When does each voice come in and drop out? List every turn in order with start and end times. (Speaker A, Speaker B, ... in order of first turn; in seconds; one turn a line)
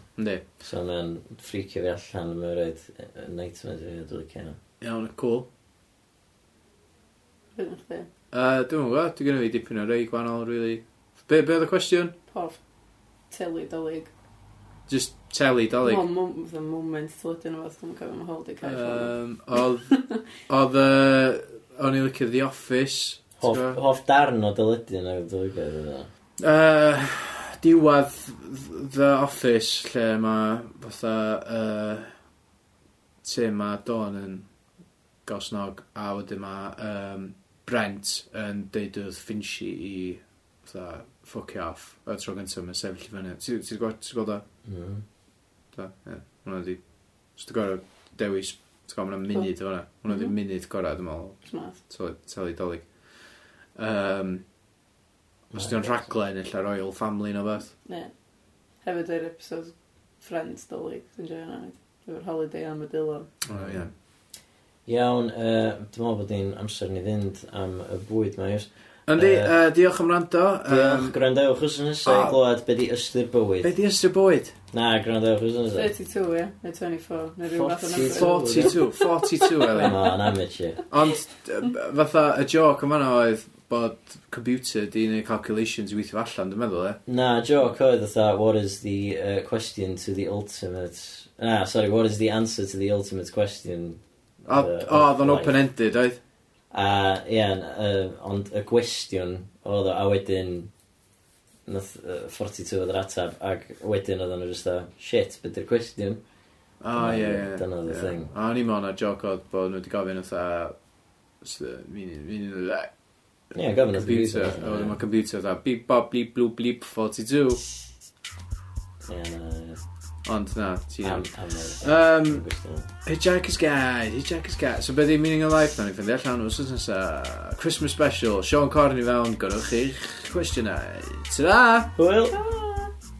Speaker A: 0.2-0.4
Speaker B: 0.6-4.6
Speaker A: 4.8-5.5
Speaker C: 7.5-8.1
Speaker A: 8.3-12.1
Speaker C: 12.3-12.6
Speaker C: 13.3-14.1
Speaker A: 14.9-16.1
Speaker C: 15.8-19.1
Speaker A: 18.6-23.8
Speaker B: 23.4-26.1
Speaker A: 26.4-32.1
Speaker A: 33.2-34.5
Speaker A: 35.2-44.4
Speaker B: 44.6-45.0
Speaker A: 45.7-54.4
Speaker C: 50.0-50.3
Speaker C: 51.4-51.8
Speaker A: 55.5-57.7
Speaker B: 55.5-56.0
Speaker C: 57.9-58.1
Speaker C: 58.8-63.3
Speaker A: 63.4-63.9
Speaker B: 63.5-63.9
Speaker B: 64.9-69.5
Speaker A: 69.1-71.1
Speaker B: 70.7-73.7
Speaker A: 72.0-72.4
Speaker A: 73.6-74.5
Speaker B: 74.7-75.9
Speaker C: 75.7-78.9
Speaker B: 77.5-78.8
Speaker A: 78.0-80.1
Speaker C: 79.6-79.9
Speaker B: 79.7-80.8
Speaker A: 80.9-87.0
Speaker B: 87.1-95.5
Speaker A: 94.5-96.2
Speaker B: 96.7-100.7
Speaker B: 101.7-106.2
Speaker A: 106.8-110.7
Speaker B: 106.9-108.3
Speaker A: 111.4-112.9
Speaker B: 113.5-115.0
Speaker A: 113.9-117.6
Speaker B: 119.0-119.8
Speaker A: 120.2-121.3
Speaker B: 121.0-122.9
Speaker A: 121.8-122.4
Speaker A: 123.0-131.9
Speaker B: 131.9-132.9